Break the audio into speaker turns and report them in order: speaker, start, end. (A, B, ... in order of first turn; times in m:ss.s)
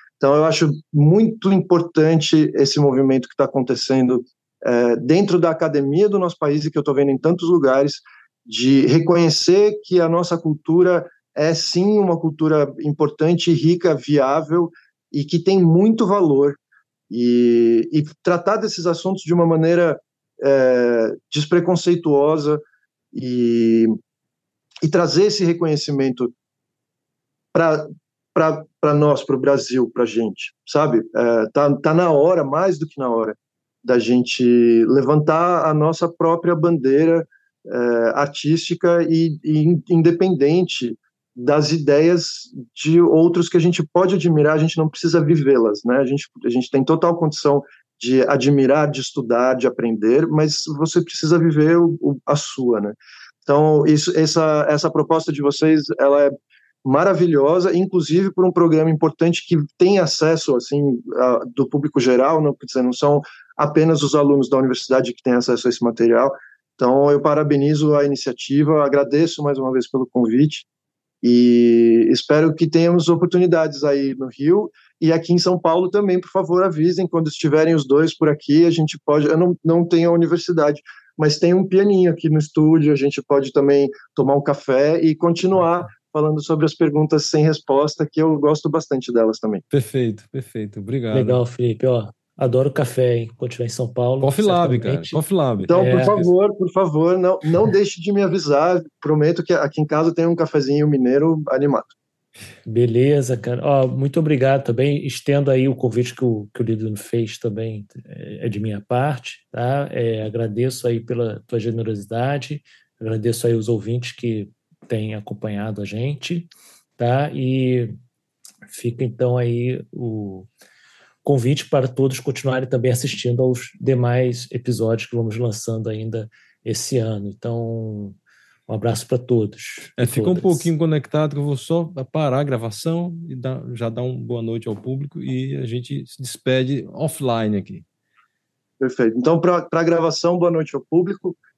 0:00.2-0:23.9 A
0:24.8-0:26.3 A
0:27.5-0:56.3 A
0:56.8-1:10.7 A
1:11.2-1:29.6 A
1:29.7-1:31.4 B
1:31.1-1:36.2 C
1:34.2-1:36.2 B
1:35.6-1:41.9 A
1:42.6-1:57.9 C
1:58.7-2:00.5 C
2:01.2-2:08.2 C
2:08.7-2:10.7 C
2:10.0-2:17.8 B
2:18.8-2:21.4 A